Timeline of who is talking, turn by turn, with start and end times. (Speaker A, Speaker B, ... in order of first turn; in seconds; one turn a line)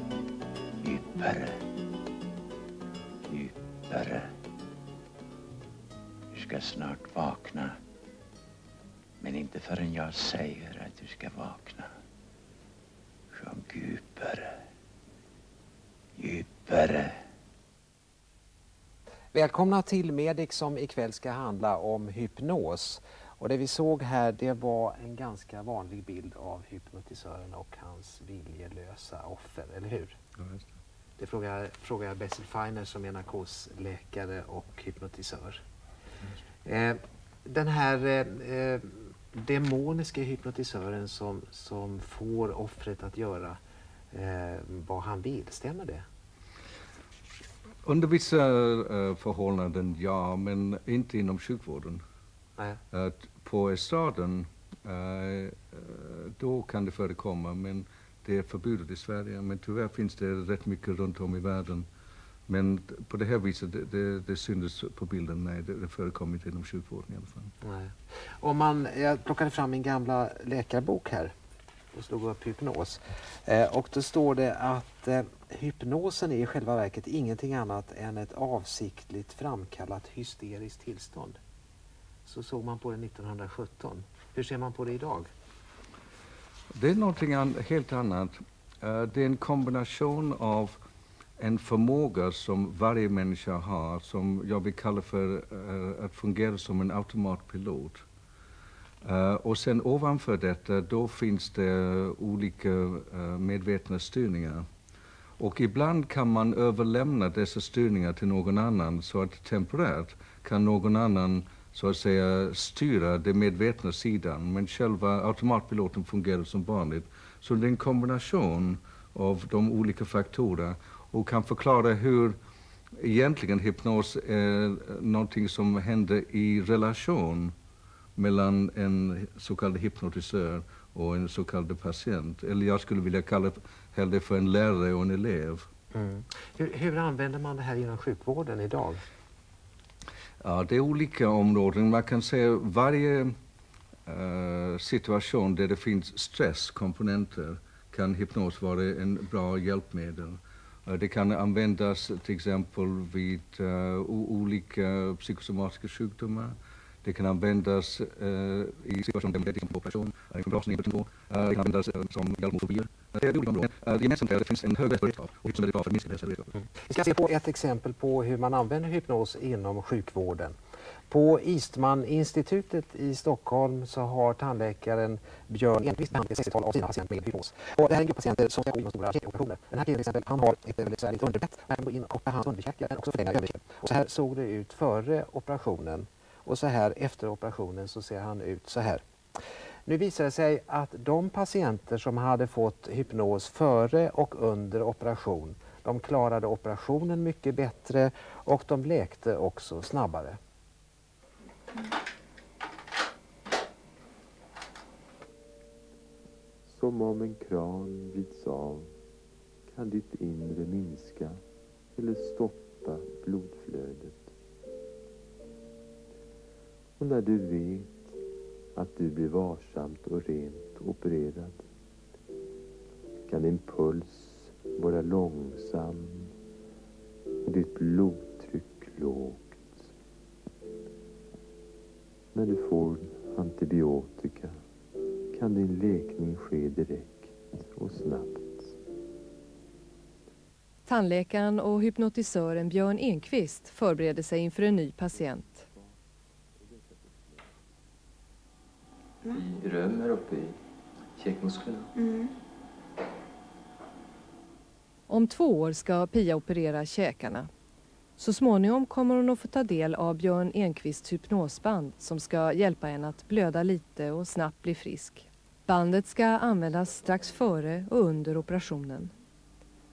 Speaker A: 0.8-1.6
Speaker A: 3.2-4.3
Speaker A: 6.3-7.8
Speaker A: 9.2-11.9
Speaker A: 13.3-14.6
Speaker A: 16.2-17.2
Speaker B: 19.3-30.1
Speaker C: 30.4-30.6
Speaker B: 31.2-35.6
Speaker B: 36.6-43.6
Speaker B: 44.1-46.0
Speaker C: 47.8-52.0
Speaker C: 52.9-61.9
Speaker C: 62.5-67.5
Speaker B: 67.6-71.3
Speaker B: 71.9-81.4
Speaker B: 82.2-85.3
Speaker C: 86.7-90.8
Speaker C: 91.4-98.0
Speaker C: 99.0-104.7
Speaker C: 105.4-122.4
Speaker C: 123.0-127.5
Speaker C: 128.2-135.7
Speaker B: 135.9-139.0
Speaker C: 140.4-143.3
Speaker C: 144.1-166.5
Speaker B: 166.8-170.6
Speaker B: 171.1-189.0
Speaker B: 189.8-200.4
Speaker D: 206.7-208.9
Speaker D: 209.7-211.4
Speaker D: 211.9-214.3
Speaker D: 217.0-218.2
Speaker D: 218.7-221.6
Speaker D: 223.3-226.3
Speaker D: 227.4-229.9
Speaker D: 232.3-234.6
Speaker D: 235.3-238.7
Speaker E: 240.8-245.7
Speaker D: 245.2-245.9
Speaker D: 246.6-247.2
Speaker F: 249.3-250.6
Speaker F: 251.1-251.9
Speaker E: 255.1-257.5
Speaker E: 258.2-269.1